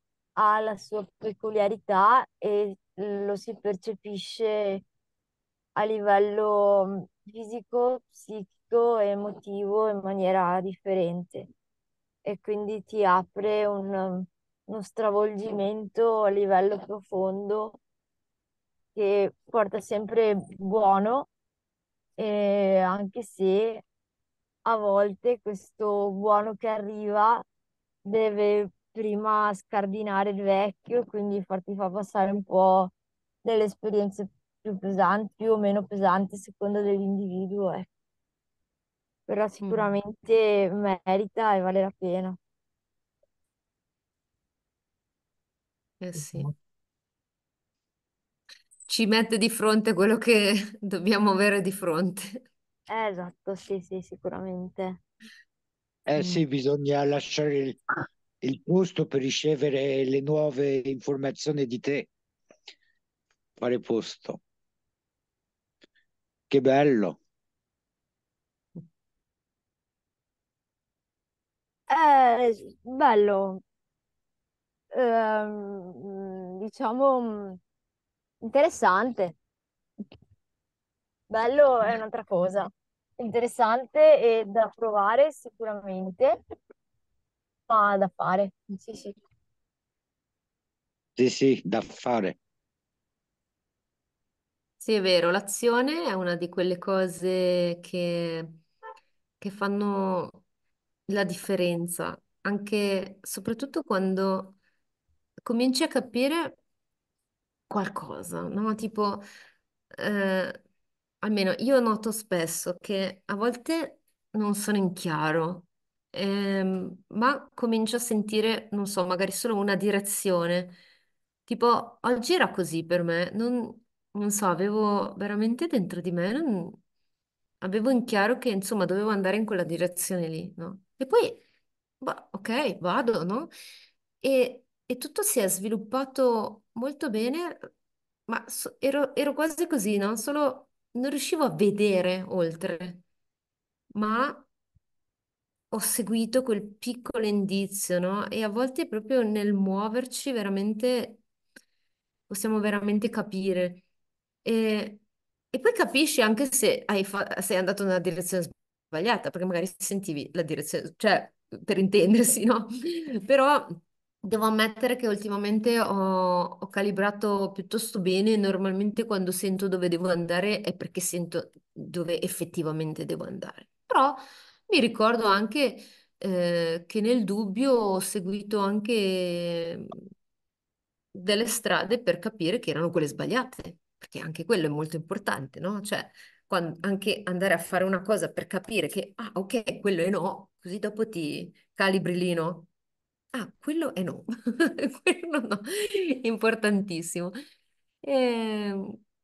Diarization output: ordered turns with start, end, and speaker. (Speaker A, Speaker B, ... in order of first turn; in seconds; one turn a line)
Speaker A: 0.4-4.8
Speaker A: 5.8-11.5
Speaker A: 12.2-17.8
Speaker A: 18.9-21.3
Speaker A: 22.2-23.8
Speaker A: 24.6-27.4
Speaker A: 28.0-32.9
Speaker A: 33.4-37.9
Speaker A: 39.3-42.4
Speaker B: 39.6-40.0
Speaker B: 46.0-46.5
Speaker B: 48.9-52.4
Speaker A: 52.9-55.0
Speaker C: 56.0-57.8
Speaker B: 56.2-56.4
Speaker C: 58.4-62.1
Speaker C: 63.6-64.4
Speaker C: 66.5-67.2
Speaker A: 71.9-73.6
Speaker A: 74.9-77.6
Speaker A: 78.4-79.3
Speaker A: 81.3-86.4
Speaker A: 87.7-89.2
Speaker C: 91.2-92.4
Speaker B: 94.8-98.6
Speaker B: 99.4-100.4
Speaker B: 101.1-104.5
Speaker B: 105.4-106.5
Speaker B: 107.7-109.2
Speaker B: 109.9-110.6
Speaker B: 111.2-120.8
Speaker B: 121.5-126.8
Speaker B: 127.6-131.4
Speaker B: 132.0-133.5
Speaker B: 134.2-137.7
Speaker B: 138.3-143.0
Speaker B: 143.9-144.4
Speaker B: 145.7-151.2
Speaker B: 152.3-153.8
Speaker B: 154.4-155.0
Speaker B: 155.5-180.0
Speaker B: 181.1-192.7
Speaker B: 193.3-197.3
Speaker B: 198.0-199.0